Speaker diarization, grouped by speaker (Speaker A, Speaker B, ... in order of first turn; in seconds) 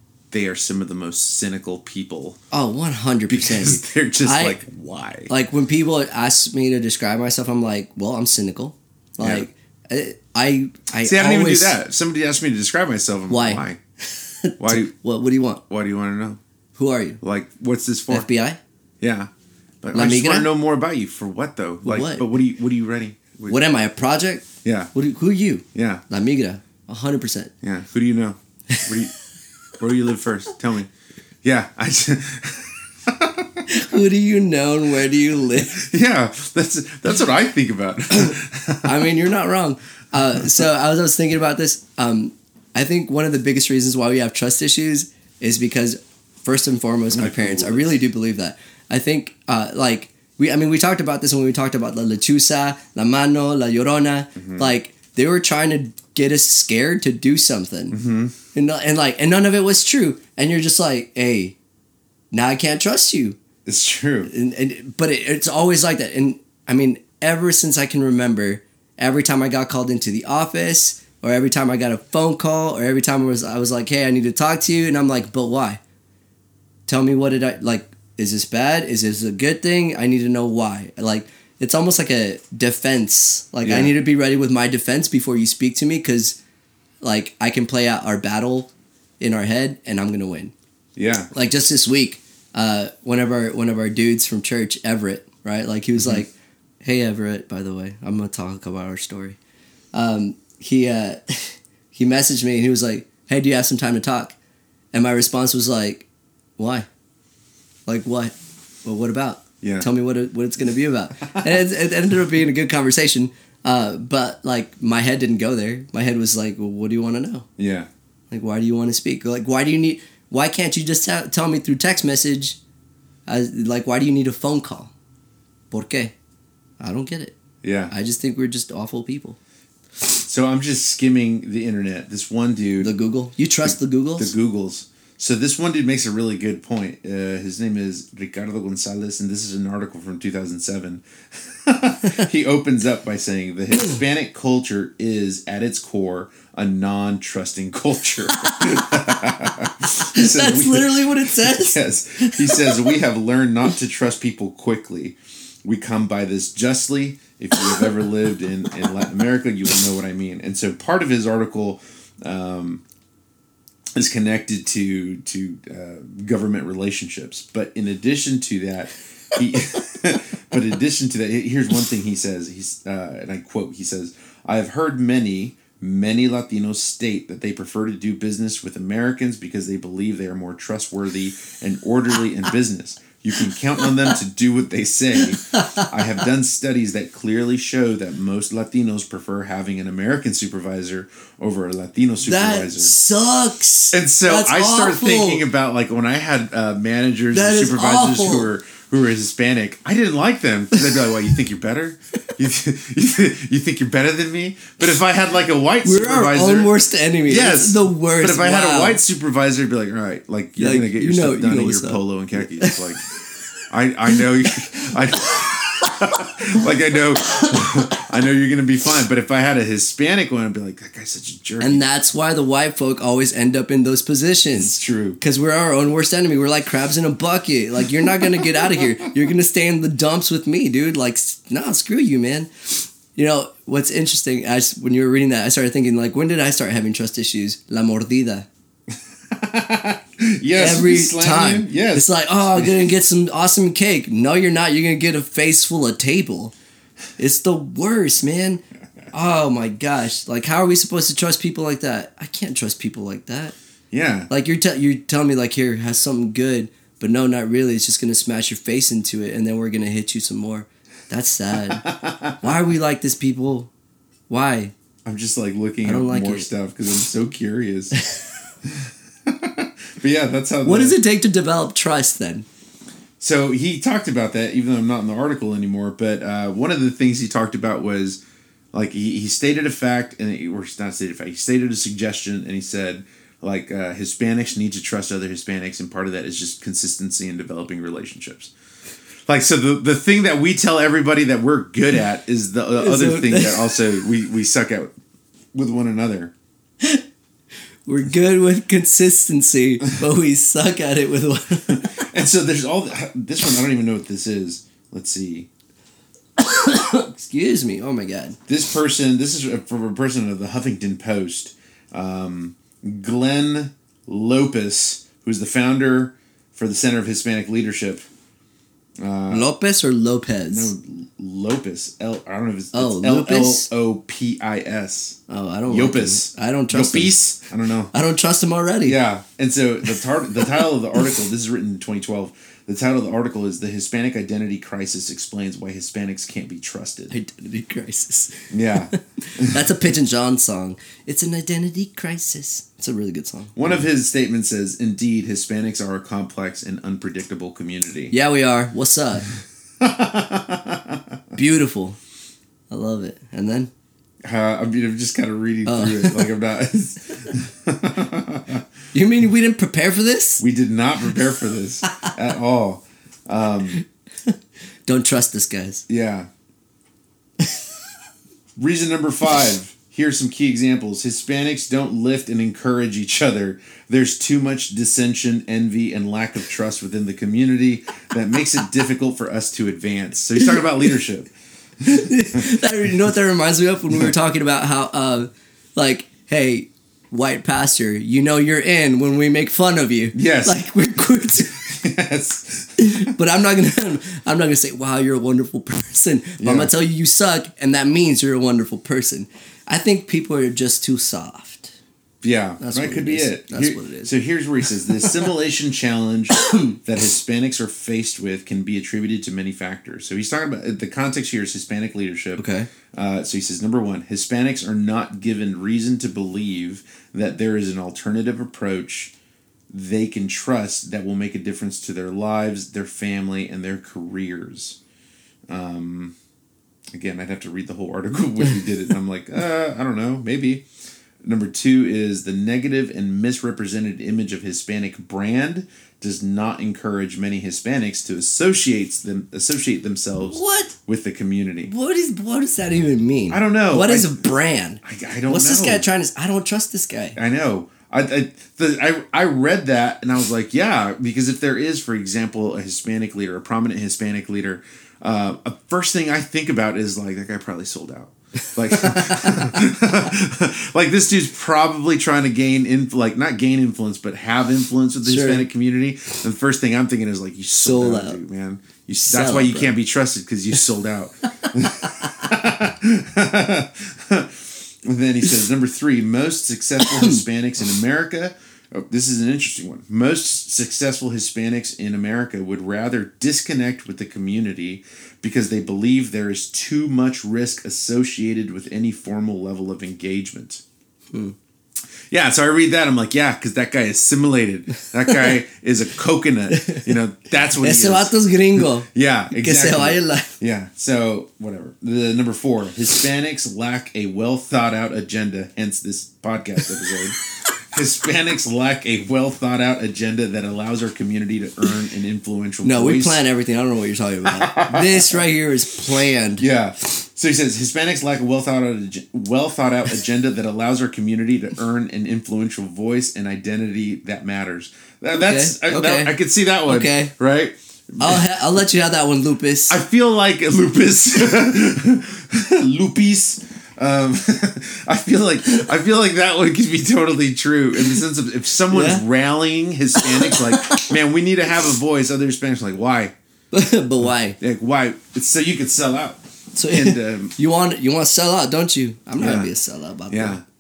Speaker A: 0.3-2.4, 3.3-5.3, 9.2-9.4, 11.0-13.8, 14.6-14.9, 15.7-16.4, 17.2-18.3, 19.0-19.3, 19.8-23.6, 24.6-24.9, 25.7-26.0, 27.6-29.1, 29.8-30.9, 31.4-33.6, 35.6-39.1, 40.4-40.7, 47.1-48.0, 54.4-54.7, 57.9-58.3, 63.6-64.3, 83.6-83.9, 91.0-91.3, 96.0-96.2, 111.3-111.5, 117.6-117.9, 127.6-127.9, 130.2-132.9, 133.6-162.8, 163.9-192.9, 193.9-206.7, 207.2-213.0, 213.7-221.8, 224.5-225.2, 228.0-229.0, 239.3-242.9, 253.9-254.3, 261.7-262.5, 265.0-268.0, 268.6-271.0, 273.2-278.2, 278.7-288.5, 289.3-294.9, 295.5-296.3, 301.7-305.5, 308.5-318.1, 319.0-319.5, 320.5-327.9, 328.8-337.1, 338.5-339.8, 343.6-348.1, 349.8-351.4, 354.2-358.6, 360.4-363.8, 365.9-366.3, 368.6-382.6, 390.1-390.6, 391.5-393.1, 396.4-396.7, 402.2-419.1, 419.7-424.8, 425.5-426.1, 426.9-430.6, 431.2-441.7, 443.3-444.3, 444.8-445.9, 447.1-490.6, 492.1-513.2, 514.3-515.2, 515.9-528.2, 529.7-543.1, 544.4-547.3, 549.2-549.5, 550.1-550.4
Speaker B: 2.5-4.6, 5.3-11.7, 13.3-13.6, 14.2-15.6, 16.8-17.2, 18.1-18.6, 19.9-20.5, 21.8-22.2, 23.5-27.5, 33.7-35.8, 38.8-58.0, 58.5-61.5, 62.3-63.4, 64.2-75.8, 76.9-86.4, 87.0-90.5, 91.3-96.3, 96.8-99.4, 99.9-104.3, 104.9-106.1, 106.6-106.9, 107.8-117.5, 118.3-122.6, 123.3-124.9, 125.7-126.1, 126.8-127.4, 127.9-129.4, 132.8-134.3, 148.3-149.0, 150.1-153.0, 185.5-185.9, 192.2-195.4, 197.3-198.5, 200.8-201.0, 205.8-209.0, 210.6-212.8, 215.5-215.8, 217.3-217.8, 221.6-238.5, 240.6-246.5, 247.2-253.5, 254.3-261.9, 262.4-263.7, 264.3-264.7, 265.8-266.5, 270.6-272.4, 292.8-294.0, 297.9-302.0, 306.4-308.4, 319.3-320.7, 322.7-323.7, 325.3-327.1, 327.9-329.0, 337.1-343.8, 348.1-349.3, 351.3-352.0, 352.7-353.7, 355.6-356.3, 358.9-360.4, 364.9-365.8, 381.8-391.6, 392.8-401.7, 402.6-405.1, 406.3-406.8, 412.4-412.7, 440.3-440.7, 441.6-447.2, 458.7-459.6, 465.0-465.4, 467.6-468.2, 469.0-469.8, 476.8-477.2, 496.5-496.9, 497.6-500.4, 512.6-516.5, 525.1-526.1, 526.6-527.1, 528.0-529.8, 538.7-539.0, 540.0-540.9, 543.5-544.4, 546.5-550.4